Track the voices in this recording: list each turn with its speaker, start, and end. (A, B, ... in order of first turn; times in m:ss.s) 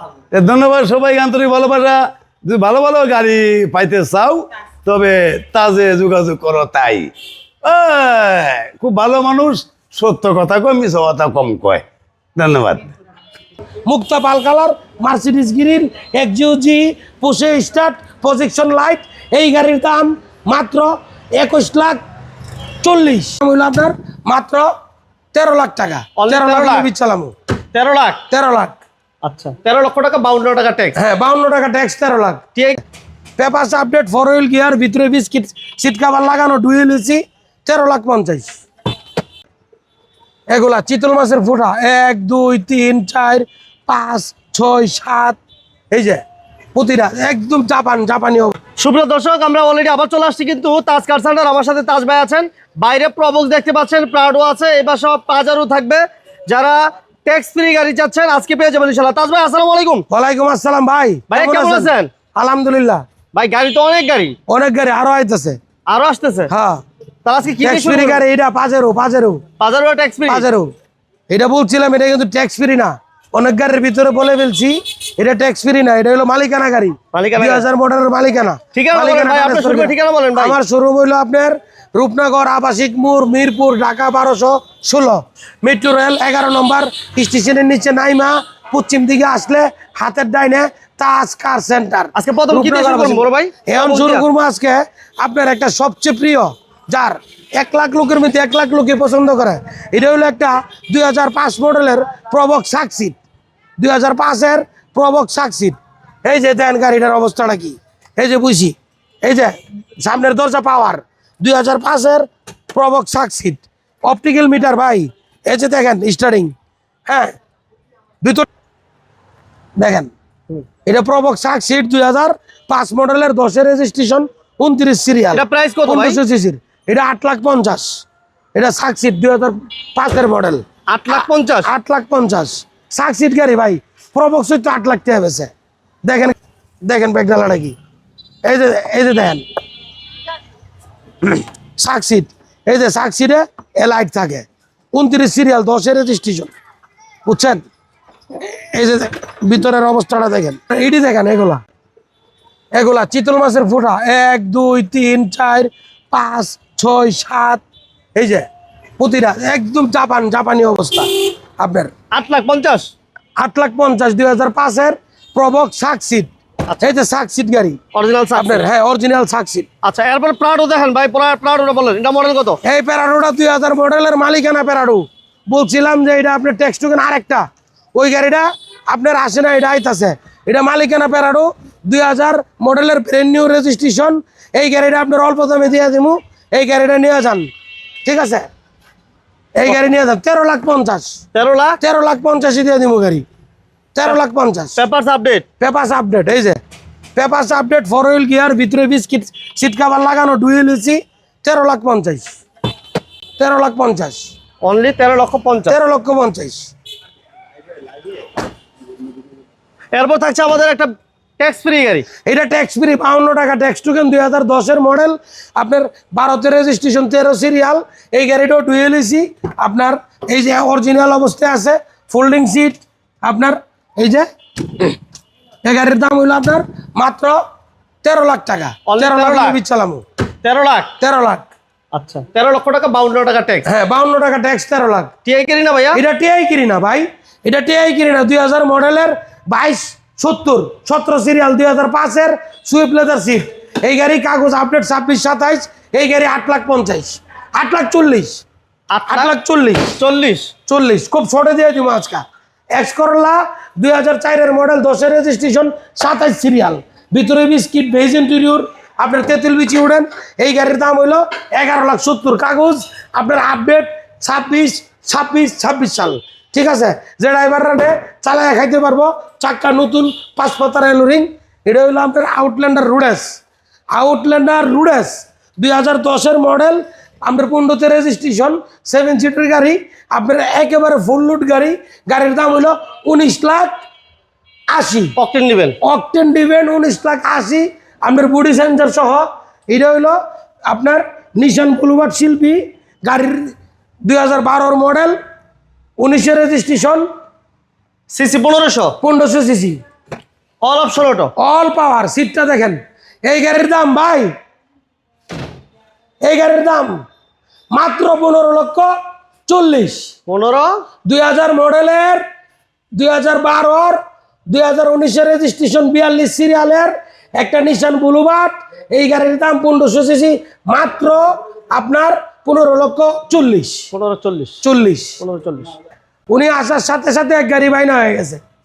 0:00.3-0:07.1 A
0:07.6-0:11.8 A
0:12.4-0:12.8 A
0:13.8-0:22.0 B
0:22.8-0:24.7 B
0:25.3-0:27.3 B
0:26.2-0:26.9 C
0:27.7-0:28.2 C
0:28.3-0:28.8 B
0:29.2-0:31.0 C
0:31.0-0:32.4 B
0:33.4-0:38.5 B
0:40.5-0:45.4 B
0:45.9-0:46.2 B
0:46.7-0:48.6 B
0:48.8-1:00.0 C
1:00.1-1:03.0 B
1:01.3-1:02.1 C
1:03.3-1:04.4 C
1:04.5-1:05.6 B
1:05.9-1:06.5 C
1:06.5-1:06.8 B
1:07.2-1:08.2 C
1:07.6-1:09.4 B
1:09.6-1:10.5 C
1:10.3-1:10.7 B
1:11.3-1:43.2 B
1:17.1-1:17.6 C
1:18.7-1:20.6 C
1:32.1-1:34.2 C
1:43.8-1:56.5 B
1:57.1-1:57.3 B
1:58.2-1:58.5 B
1:59.8-2:00.1 B
2:00.8-2:15.5 B
2:05.3-2:06.2 C
2:10.9-2:11.7 C
2:16.0-2:17.7 B
2:18.4-2:19.4 B
2:21.2-2:26.5 B
2:27.3-2:27.6 B
2:28.4-2:31.6 B
2:32.7-2:37.6 B
2:38.1-2:38.5 B
2:39.0-2:41.9 B
2:42.1-2:42.9 C
2:43.4-2:46.3 B
2:46.8-2:47.8 B
2:47.9-2:48.6 C
2:48.4-2:49.7 B
2:49.8-2:52.6 C
2:52.6-3:07.5 B
3:08.0-3:08.5 B
3:09.5-3:11.2 B
3:11.3-3:11.8 C
3:11.8-3:13.2 B
3:13.9-3:14.8 B
3:14.8-3:15.4 C
3:15.6-3:16.6 B
3:17.2-3:22.3 B
3:23.4-3:24.3 B
3:24.6-3:25.8 C
3:25.7-3:26.7 B
3:29.9-3:32.1 C
3:32.2-3:44.2 B
3:45.6-3:47.4 B
3:48.0-3:50.0 B
3:48.9-3:49.6 C
3:50.4-3:50.9 C
3:51.0-3:51.5 B
3:51.9-3:53.6 C
3:53.6-3:55.1 B
3:55.2-3:56.0 C
3:55.9-4:08.4 B
4:08.9-4:09.3 C
4:09.1-4:09.9 B
4:09.9-4:10.5 C
4:10.7-4:33.4 B
4:33.9-4:43.8 B
4:44.7-4:45.2 B
4:45.2-4:45.8 C
4:45.8-4:50.2 B
4:50.7-4:53.5 B
4:54.0-4:55.2 B
4:56.0-4:57.1 B
4:58.1-4:59.0 C
4:59.0-4:59.8 B
5:00.6-5:01.3 C
5:01.4-5:04.3 B
5:06.2-5:07.0 B
5:07.7-5:08.9 B
5:09.5-5:10.1 B
5:10.3-5:10.7 C
5:11.0-5:12.2 B
5:12.9-5:23.9 B
5:23.9-5:24.6 C
5:24.6-5:25.2 B
5:25.2-5:25.7 C
5:26.3-5:28.4 B